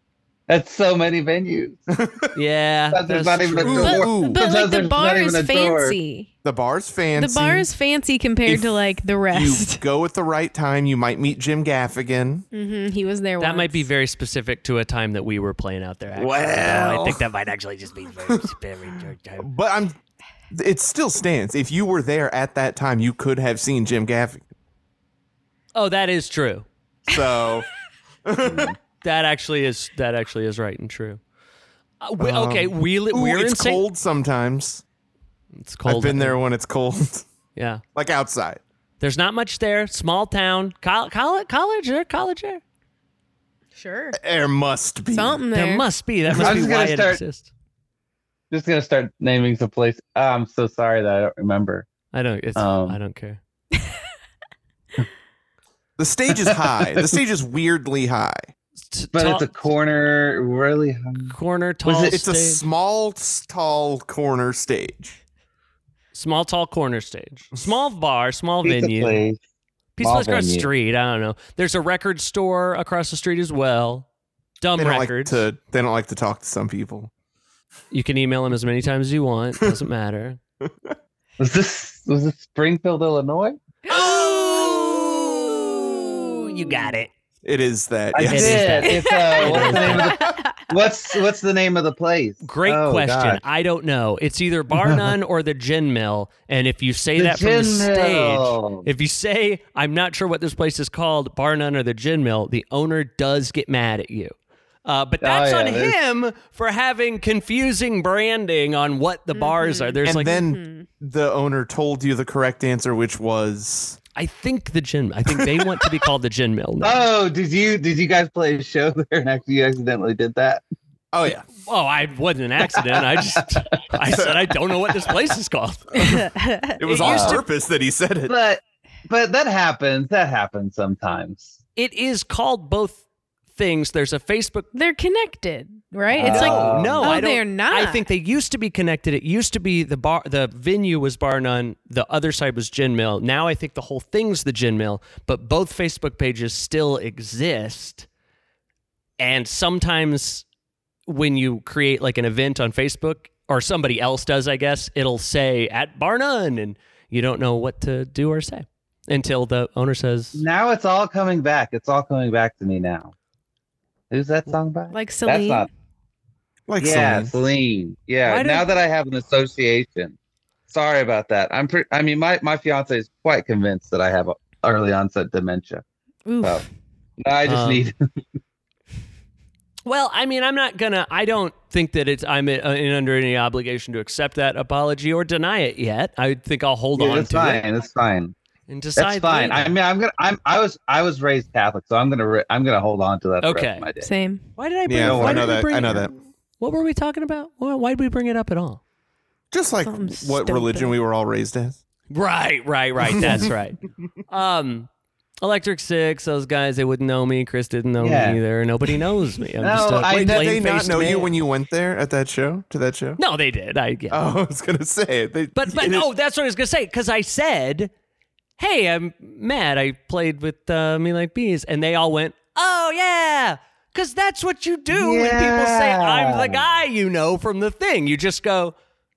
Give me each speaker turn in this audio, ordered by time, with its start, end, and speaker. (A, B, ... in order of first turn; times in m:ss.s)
0:00.5-0:01.9 A
0:01.9-0:02.3 B
0:02.3-0:04.0 C
0:02.9-0:06.0 A
0:03.6-0:04.4 B
0:03.8-0:06.3 D
0:06.4-0:07.7 B
0:07.2-0:09.8 D
0:08.5-0:12.5 B
0:12.5-0:13.9 D
0:13.4-0:19.5 C
0:16.2-0:17.2 B
0:19.4-0:20.0 B
0:20.5-0:24.4 B
0:25.8-0:26.6 C
0:27.1-0:27.7 B
0:28.2-0:28.8 B
0:28.4-0:28.8 A
0:29.0-0:31.2 C
0:32.0-0:33.8 C
0:32.2-0:34.8 B
0:35.6-0:36.4 C
0:35.8-0:37.3 B
0:37.6-0:37.8 C
0:37.9-0:38.6 B
0:39.0-0:42.6 C
0:43.8-0:44.2 D
0:44.1-0:45.4 B
0:45.1-0:45.9 D
0:45.5-0:47.5 C
0:46.3-0:46.7 B
0:46.4-0:47.2 A
0:48.5-0:51.9 A
0:52.1-0:53.4 C
0:52.6-0:53.0 A
0:56.0-0:58.5 B
0:56.3-0:57.1 A
0:58.8-0:59.7 C
0:59.1-1:01.4 A
1:01.3-1:02.6 C
1:01.9-1:02.2 A
1:01.9-1:05.2 B
1:06.1-1:09.2 C
1:08.6-1:09.4 A
1:10.0-1:14.1 C
1:10.0-1:10.7 A
1:14.6-1:15.5 C
1:14.8-1:17.1 B
1:17.9-1:20.4 C
1:20.6-1:21.0 B
1:21.4-1:23.6 A
1:23.9-1:26.3 B
1:23.9-1:27.1 C
1:27.4-1:28.9 B
1:28.1-1:33.4 A
1:28.2-1:30.2 C
1:28.9-1:30.7 D
1:29.5-1:30.4 B
1:32.4-1:50.3 C
1:34.8-1:35.1 A
1:37.2-1:38.9 A
1:45.2-1:46.0 A
1:49.3-1:50.9 D
1:50.0-1:54.0 B
1:54.2-1:57.1 C
1:55.3-1:55.9 B
1:56.8-2:00.6 A
2:01.1-2:01.5 B
2:01.6-2:06.1 C
2:02.8-2:03.8 A
2:04.1-2:05.0 B
2:06.0-2:06.9 D
2:06.8-2:08.3 B
2:06.9-2:07.4 C
2:07.0-2:07.4 A
2:08.3-2:11.6 A
2:11.8-2:13.0 C
2:13.5-2:14.7 C
2:14.7-2:18.0 D
2:16.1-2:17.2 A
2:16.2-2:28.1 C
2:29.2-2:30.5 C
2:31.1-2:40.4 C
2:40.4-2:43.1 A
2:44.1-2:45.7 A
2:44.9-2:45.7 D
2:46.7-2:47.3 B
2:46.8-2:50.2 A
2:48.2-2:48.7 C
2:50.7-2:55.8 A
2:56.3-2:56.7 D
2:57.2-2:58.0 A
2:57.5-2:57.9 C
2:59.9-3:07.6 C
3:07.0-3:08.4 A
3:08.7-3:09.8 C
3:09.0-3:14.1 A
3:13.4-3:13.9 C
3:14.0-3:14.5 D
3:14.6-3:18.8 C
3:14.9-3:16.1 B
3:15.0-3:15.6 A
3:19.5-3:21.8 B
3:19.8-3:21.0 D
3:22.1-3:24.9 C
3:23.2-3:23.5 B
3:25.4-3:31.3 C
3:28.0-3:28.4 A
3:29.6-3:31.0 A
3:30.1-3:33.2 B
3:33.2-3:34.2 C
3:34.1-3:36.1 B
3:35.6-3:37.9 C
3:38.6-3:48.8 C
3:44.9-3:46.6 A